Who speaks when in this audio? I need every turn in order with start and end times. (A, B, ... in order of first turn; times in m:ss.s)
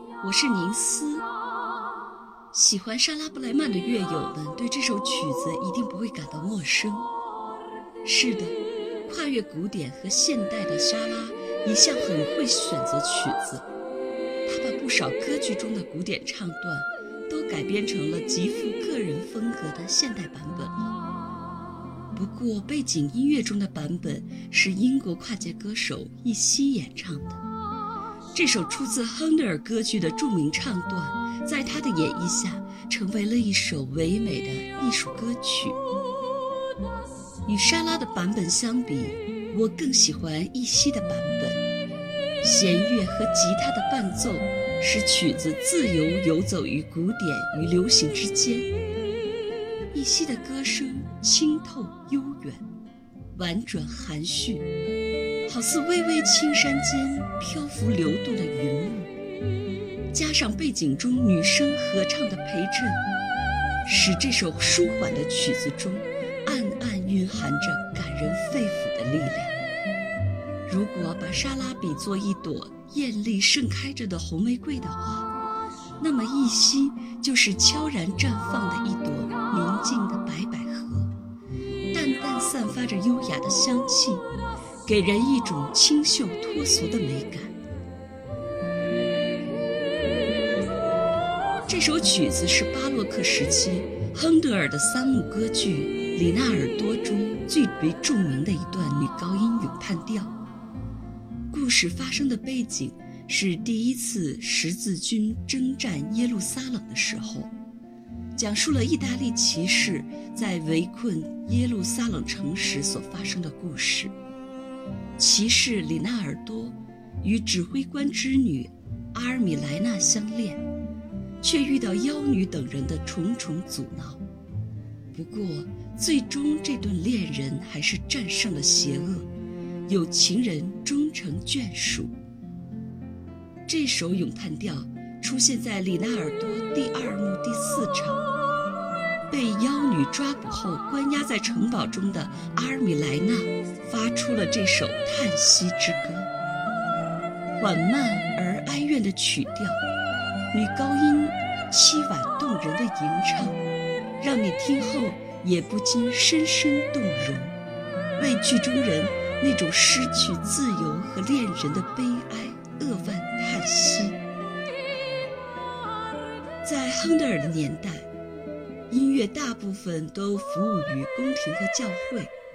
0:00.2-0:01.3 A
0:02.5-0:07.1 A
0:08.0-0:13.7 A
0:14.5-0:20.9 A
0:22.2-0:27.4 A
0:28.3-0:35.8 A
0:37.5-0:41.6 A
0:42.4-0:48.7 A
0:49.9-0:52.7 A
0:53.4-0:54.6 A
0:55.5-0:59.1 A
1:00.1-1:03.0 A
1:03.8-1:09.6 A
1:10.7-1:15.3 A
1:16.0-1:21.1 A
1:21.9-1:24.3 A
1:24.8-1:27.6 A
1:31.7-1:40.3 A
1:41.5-1:47.5 A
1:48.4-1:54.1 A
1:55.2-2:00.6 A
2:01.4-2:04.2 A
2:05.1-2:09.3 A
2:09.9-2:12.2 A
2:13.7-2:18.2 A
2:19.3-2:26.3 A
2:27.6-2:29.8 A
2:30.5-2:33.6 A
2:34.2-2:37.6 A
2:38.2-2:44.2 A
2:46.6-2:48.1 A
2:48.9-2:52.3 A